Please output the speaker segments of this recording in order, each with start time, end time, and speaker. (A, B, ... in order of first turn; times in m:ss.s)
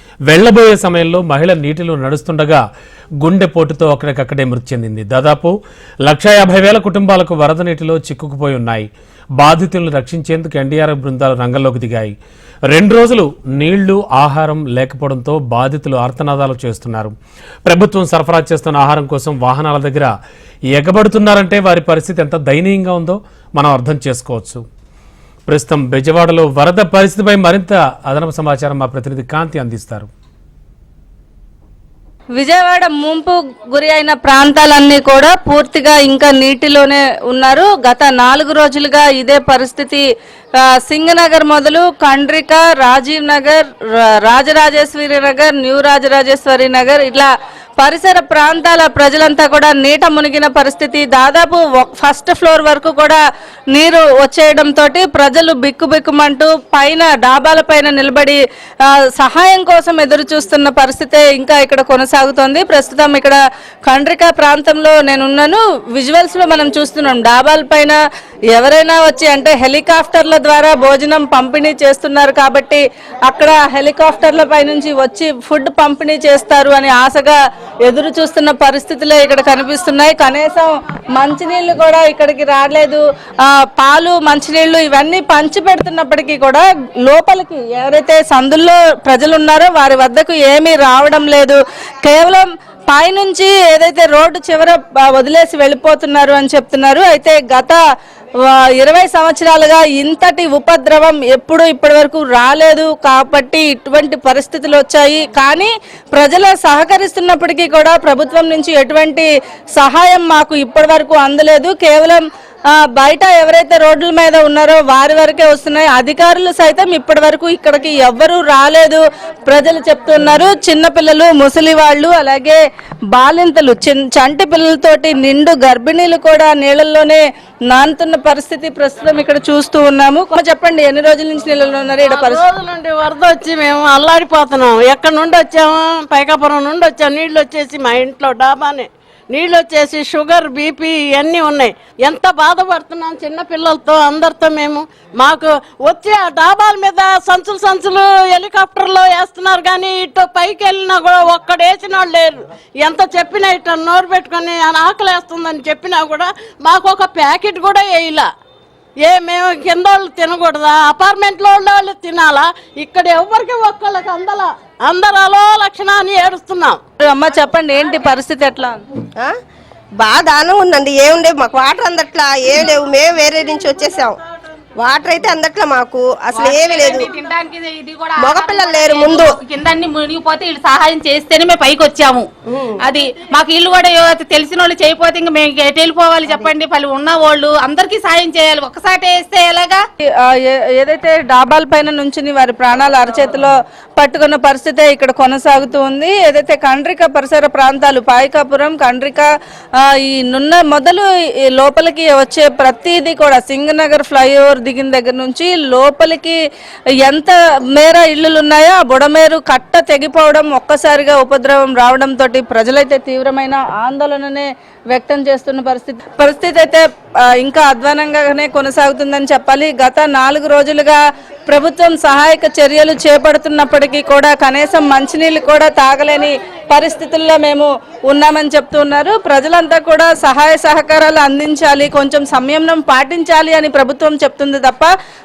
0:00.3-0:02.6 A
0:03.2-0:05.5 A
0:06.0-0:08.9 A
0:09.4-0:12.1 A
0:12.7-0:17.1 A
0:17.6-0:20.1 A
0:20.7-0:24.6 A
0:25.5-0:30.1 A
0:32.4-0:40.0 B
0:40.6-0:43.6 B
0:44.2-0:47.3 B
0:47.8-0:53.2 B
0:53.7-1:08.0 B
1:08.5-1:37.8 B
1:38.4-1:52.2 B
1:52.7-2:02.6 B
2:03.1-2:12.4 B
2:12.1-2:38.3 C
2:39.0-2:46.8 C
2:47.0-2:48.8 B
2:50.0-2:54.2 D
2:54.8-2:57.1 D
2:56.4-3:02.3 E
2:58.2-2:59.3 D
3:02.8-3:09.8 E
3:10.2-3:21.0 B
3:21.6-3:26.4 B
3:27.0-3:36.8 B
3:37.4-3:54.9 B